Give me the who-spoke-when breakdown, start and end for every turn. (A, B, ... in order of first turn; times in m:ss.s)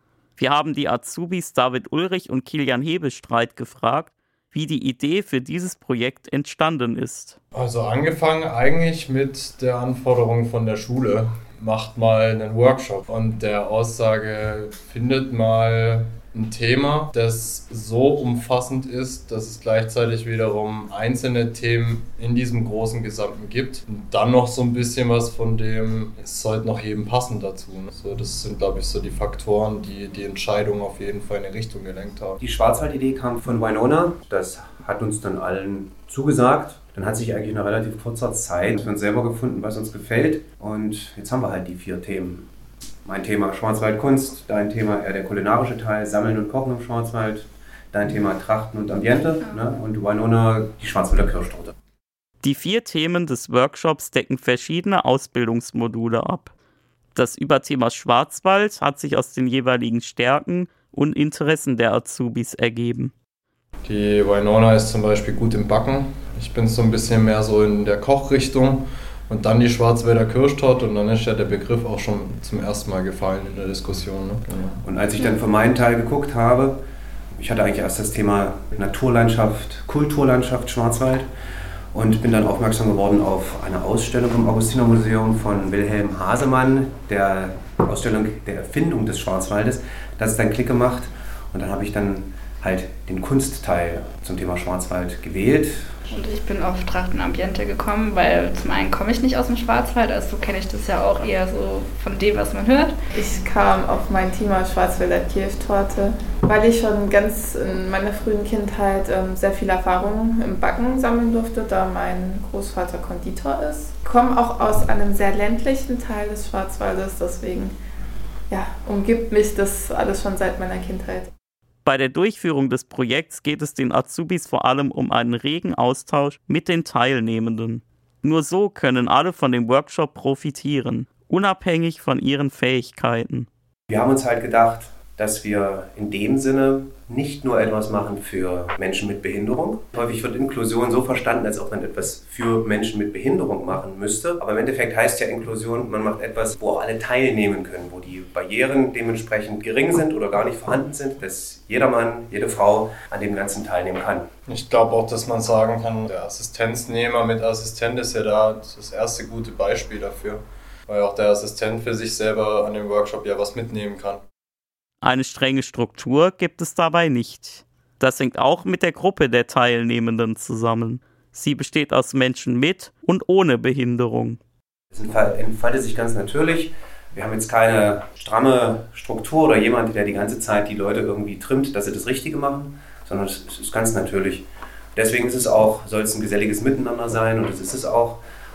0:00.4-0:07.4 A
0:07.5-0:32.4 B
0:32.4-0:42.5 C
0:43.0-0:51.7 C
0:52.4-0:56.5 A
0:57.1-1:03.1 A
1:03.8-1:14.8 B
1:14.8-1:16.8 C
1:17.4-1:21.3 C
1:21.9-1:35.9 C
1:36.1-1:43.0 D
1:43.1-1:57.7 E
1:58.5-2:01.3 E
2:01.8-2:13.5 A
2:13.9-2:34.2 C
2:34.5-2:44.2 B
2:45.0-2:54.4 A
2:54.9-3:08.2 C